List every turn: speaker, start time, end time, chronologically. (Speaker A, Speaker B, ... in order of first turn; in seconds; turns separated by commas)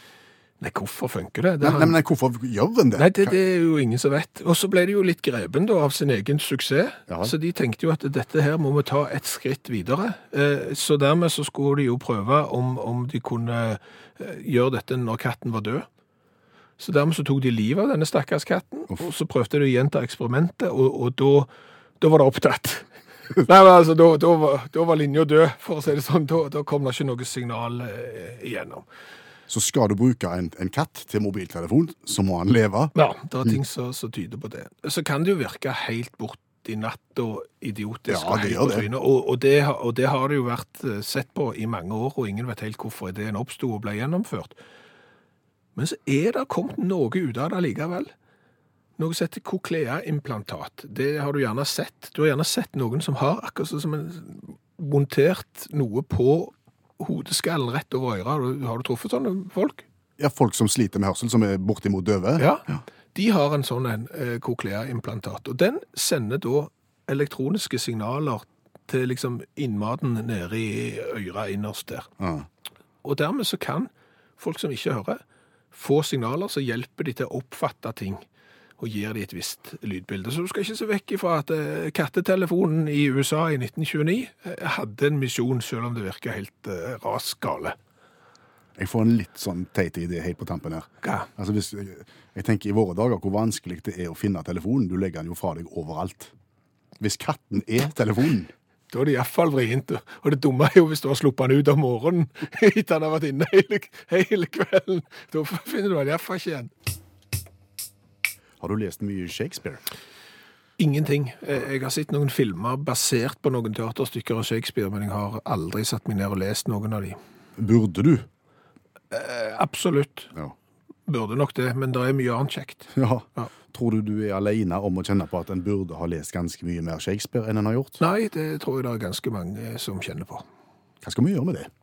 Speaker A: 0.6-1.9, Speaker B: 1.6-3.3, Speaker A: 2.9-15.8, Speaker B: 7.1-7.3, Speaker A: 16.8-22.9, Speaker A: 23.4-28.8, Speaker B: 29.5-32.9, Speaker A: 32.9-44.5, Speaker B: 38.1-38.9, Speaker A: 45.8-48.1, Speaker A: 49.0-59.8, Speaker B: 60.2-62.8, Speaker A: 62.4-72.1, Speaker B: 72.2-72.5, Speaker A: 73.0-75.2, Speaker A: 75.7-78.2, Speaker A: 78.8-87.8, Speaker B: 88.8-96.3, Speaker B: 97.0-98.5, Speaker A: 98.9-106.7, Speaker B: 108.6-109.8, Speaker A: 110.8-117.2, Speaker B: 117.6-118.2, Speaker A: 119.1-120.3, Speaker A: 121.1-123.5, Speaker B: 122.9-128.0, Speaker A: 128.0-130.4, Speaker B: 131.0-131.7